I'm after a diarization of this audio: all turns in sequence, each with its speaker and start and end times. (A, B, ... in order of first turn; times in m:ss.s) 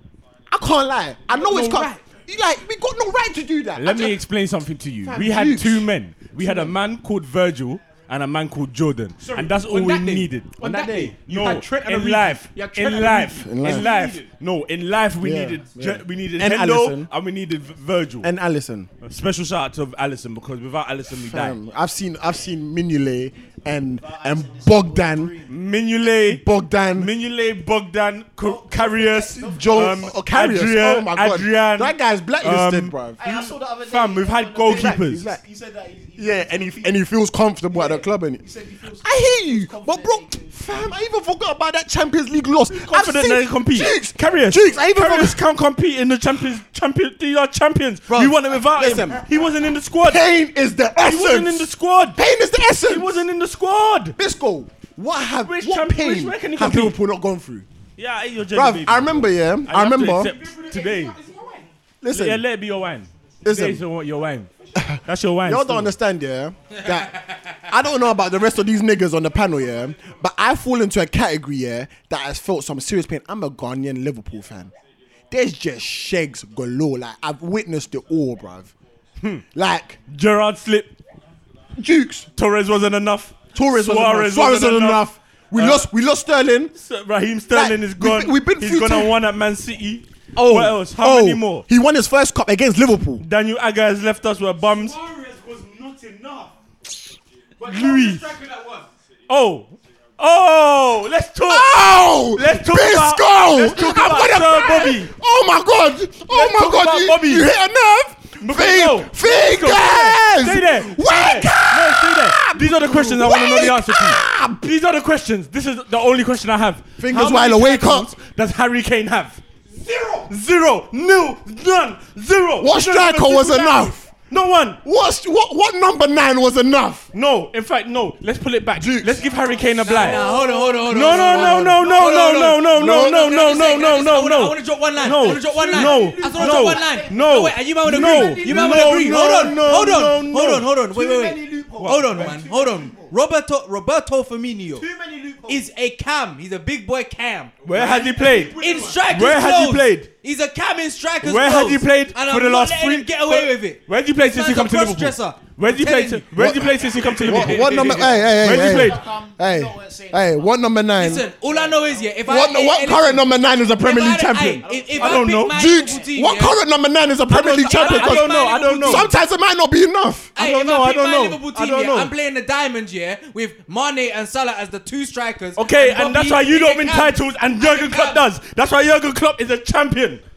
0:00.5-0:04.2 A
0:01.3-0:02.0 B
0:03.8-0:18.3 C
0:05.1-0:05.9 A
0:09.2-0:14.3 B
0:13.3-0:13.9 A
0:15.2-0:17.1 A
0:18.2-0:18.9 A
0:19.0-0:21.6 C
0:21.1-0:25.4 A
0:24.0-0:25.5 D
0:25.5-0:26.4 C
0:26.1-0:27.1 A
0:26.9-0:35.2 C
0:28.4-0:30.1 D
0:29.4-0:33.2 A
0:33.2-0:37.0 D
0:34.7-0:35.4 A
0:36.2-0:38.4 A
0:37.7-0:40.8 D
0:39.0-0:45.4 A
0:42.7-0:50.2 C
0:48.1-0:49.2 A
0:50.0-0:53.2 A
0:51.0-0:52.2 C
0:52.8-0:54.2 C
0:54.2-0:57.7 A
0:55.4-0:57.0 C
0:58.0-1:01.2 C
0:58.5-1:00.3 A
1:00.2-1:01.7 B
1:02.0-1:02.4 A
1:02.1-1:04.5 C
1:03.4-1:03.8 A
1:04.8-1:14.7 A
1:05.0-1:05.9 C
1:15.3-1:18.7 A
1:19.2-1:19.4 C
1:19.5-1:20.0 A
1:20.1-1:21.0 C
1:21.8-1:22.3 A
1:22.4-1:25.9 C
1:23.5-1:26.7 A
1:26.8-1:31.6 C
1:27.5-1:29.2 A
1:30.4-1:33.2 A
1:33.2-1:35.0 C
1:34.6-1:36.6 B
1:37.6-1:38.9 B
1:37.6-1:38.2 C
1:39.3-1:45.1 C
1:41.4-1:54.7 A
1:46.3-1:47.5 C
1:48.4-1:59.4 C
1:57.0-1:58.1 A
1:59.9-2:00.3 B
2:00.3-2:04.8 C
2:02.6-2:04.1 A
2:04.8-2:07.1 A
2:07.1-2:10.2 C
2:08.8-2:09.2 A
2:09.7-2:12.6 D
2:09.9-2:24.9 E
2:10.9-2:20.7 C
2:11.5-2:12.0 A
2:12.8-2:13.2 A
2:15.0-2:20.3 D
2:20.8-2:23.2 D
2:21.8-2:22.4 C
2:24.7-2:25.6 D
2:25.5-2:27.5 E
2:27.6-2:29.1 B
2:27.6-2:30.1 C
2:28.5-2:36.4 E
2:31.2-2:39.0 C
2:36.4-2:41.3 A
2:36.9-2:38.1 B
2:37.9-2:42.2 D
2:41.0-2:43.3 E
2:42.2-2:44.6 A
2:43.8-2:46.6 E
2:44.6-2:46.1 D
2:45.0-2:45.6 C
2:45.5-2:50.3 A
2:47.3-2:49.1 C
2:47.3-2:49.1 E
2:50.4-2:58.2 E
2:50.4-2:52.1 C
2:55.6-3:00.2 C